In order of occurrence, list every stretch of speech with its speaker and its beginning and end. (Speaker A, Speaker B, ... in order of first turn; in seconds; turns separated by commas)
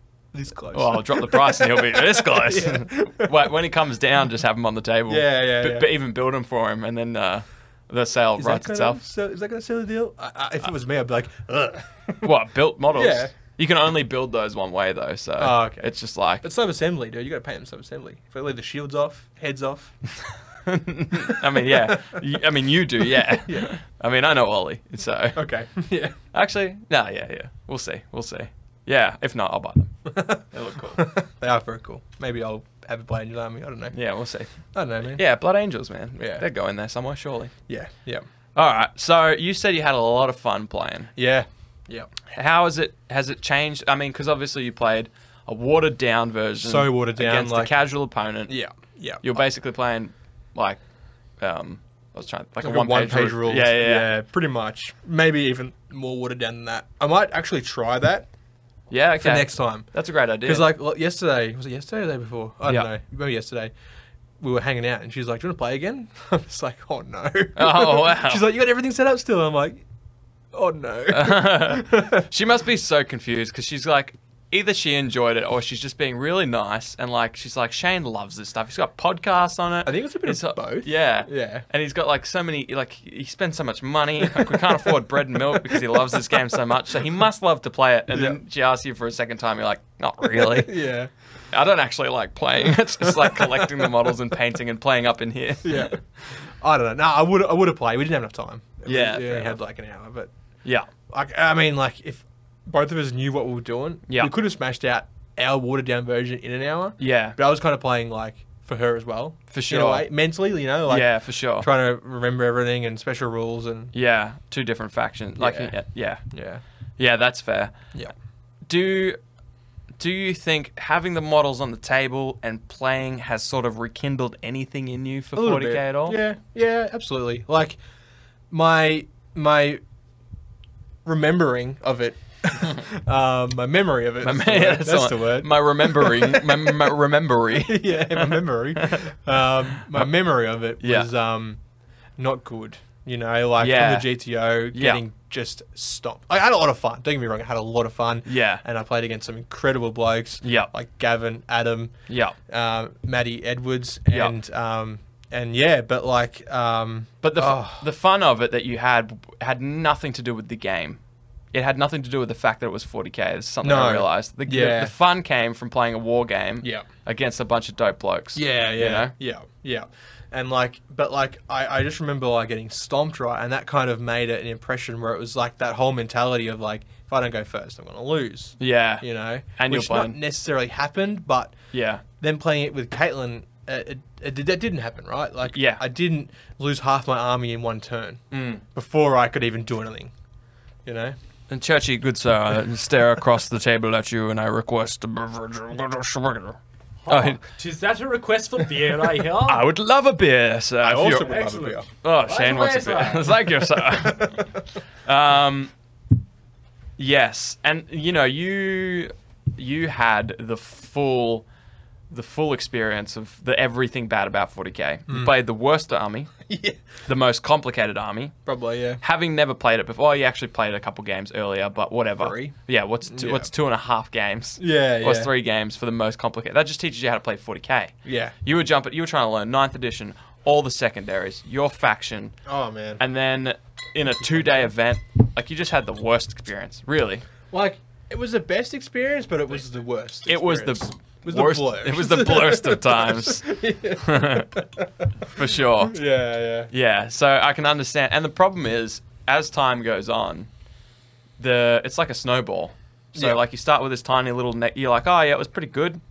Speaker A: 0.3-3.3, Speaker B: 0.7-9.0, Speaker A: 5.1-5.9, Speaker A: 8.4-12.3, Speaker B: 12.2-16.4, Speaker A: 12.9-13.3, Speaker A: 15.4-15.9, Speaker A: 16.4-19.9, Speaker B: 20.6-25.4, Speaker A: 21.1-22.2, Speaker A: 23.3-23.7, Speaker A: 25.3-26.2, Speaker B: 26.3-31.1, Speaker A: 30.1-30.4, Speaker A: 30.9-34.0, Speaker B: 33.9-34.5, Speaker A: 34.7-35.2, Speaker B: 35.1-37.5, Speaker A: 36.2-36.4, Speaker A: 37.7-38.2, Speaker B: 38.5-41.1, Speaker A: 41.1-42.1, Speaker B: 42.3-48.5, Speaker A: 46.6-47.7, Speaker A: 48.5-49.2, Speaker B: 49.2-50.8, Speaker B: 51.4-54.1, Speaker A: 52.6-58.3, Speaker B: 58.9-60.7, Speaker A: 59.2-59.9, Speaker A: 60.4-63.7, Speaker A: 64.4-69.8, Speaker B: 67.5-68.4, Speaker A: 70.5-72.3, Speaker B: 71.1-90.8, Speaker A: 79.8-81.6, Speaker A: 84.2-86.4, Speaker A: 88.1-88.4, Speaker A: 90.2-91.1, Speaker B: 91.5-96.0, Speaker A: 93.0-93.9, Speaker A: 95.6-100.3, Speaker B: 98.8-99.6, Speaker A: 101.1-113.9, Speaker B: 107.0-107.3, Speaker B: 109.5-110.1, Speaker B: 110.9-111.7, Speaker B: 113.9-116.2, Speaker A: 115.4-115.7, Speaker A: 116.3-116.6, Speaker B: 117.0-117.8, Speaker B: 118.7-119.2, Speaker B: 120.0-126.2, Speaker A: 125.3-127.8, Speaker A: 128.5-129.8, Speaker A: 131.0-136.9, Speaker B: 134.2-139.1, Speaker A: 137.6-141.6, Speaker B: 140.8-141.1, Speaker A: 142.2-151.9, Speaker B: 143.6-144.1, Speaker B: 144.7-145.0, Speaker B: 148.2-148.6, Speaker B: 150.4-150.7, Speaker B: 152.1-152.3, Speaker A: 152.5-157.8, Speaker B: 154.1-154.3, Speaker B: 157.2-161.0, Speaker B: 161.5-169.1, Speaker A: 163.6-164.9, Speaker A: 166.6-166.8, Speaker A: 168.3-181.6, Speaker B: 178.6-180.2, Speaker B: 181.7-182.0, Speaker A: 182.2-190.1, Speaker B: 185.5-185.8, Speaker B: 188.3-188.6, Speaker A: 190.8-191.2, Speaker B: 191.5-197.4, Speaker C: 197.0-199.7, Speaker B: 199.4-205.7, Speaker A: 200.8-201.9, Speaker C: 201.1-203.5, Speaker A: 203.9-204.6, Speaker B: 207.0-211.4, Speaker B: 212.1-216.3, Speaker A: 216.5-216.8, Speaker B: 217.1-218.3, Speaker A: 218.4-219.0, Speaker B: 219.0-232.3, Speaker A: 222.2-222.5, Speaker A: 223.1-223.5, Speaker A: 224.6-225.3, Speaker A: 228.0-228.3, Speaker A: 232.4-233.0, Speaker B: 233.0-237.2, Speaker A: 237.5-245.1, Speaker B: 240.3-244.6, Speaker B: 245.2-246.0, Speaker A: 245.8-246.7, Speaker B: 246.7-250.5, Speaker B: 251.4-256.0, Speaker A: 253.1-253.4